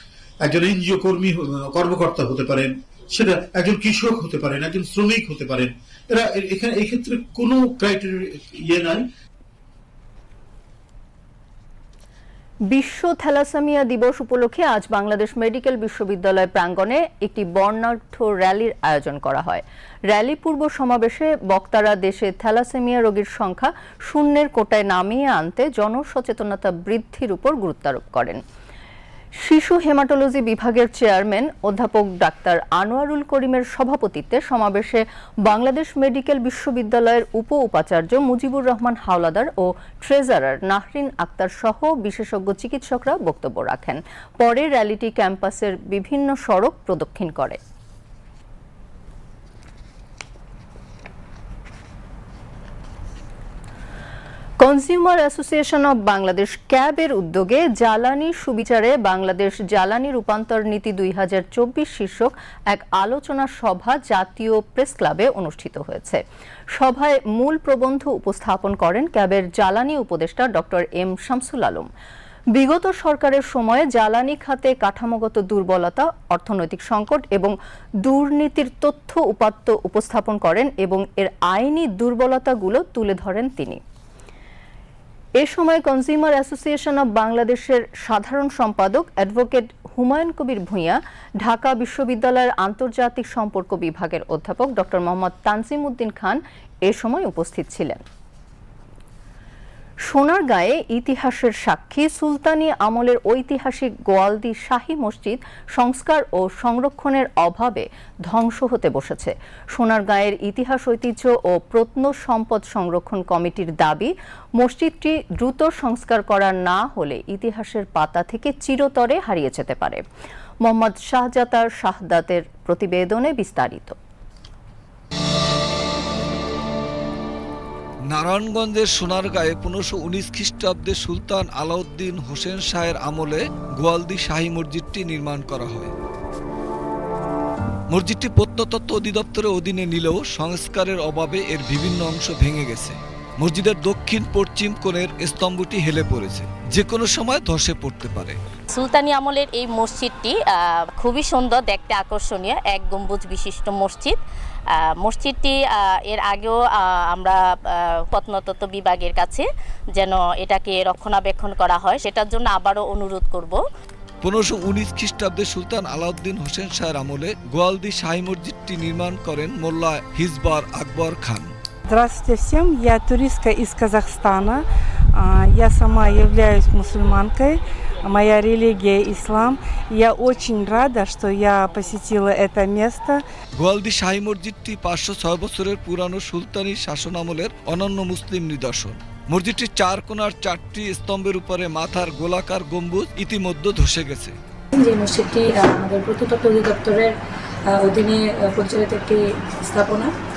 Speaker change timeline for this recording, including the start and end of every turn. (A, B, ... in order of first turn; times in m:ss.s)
0:00.4-0:09.0 A
0:12.7-0:28.4 B
0:29.4-0:47.6 B
0:54.6-1:06.2 B
1:06.8-1:11.9 B
1:12.5-1:23.8 B
1:25.4-1:38.0 B
1:40.1-2:00.0 B
2:00.6-2:04.0 B
2:08.1-2:15.9 C
2:17.9-2:28.4 C
2:28.7-2:34.2 D
2:34.7-2:43.6 D
2:44.2-2:51.5 C
2:51.9-2:54.6 E
2:55.1-3:03.2 E
3:03.6-3:14.4 C
3:14.7-3:17.1 F
3:17.7-3:20.1 F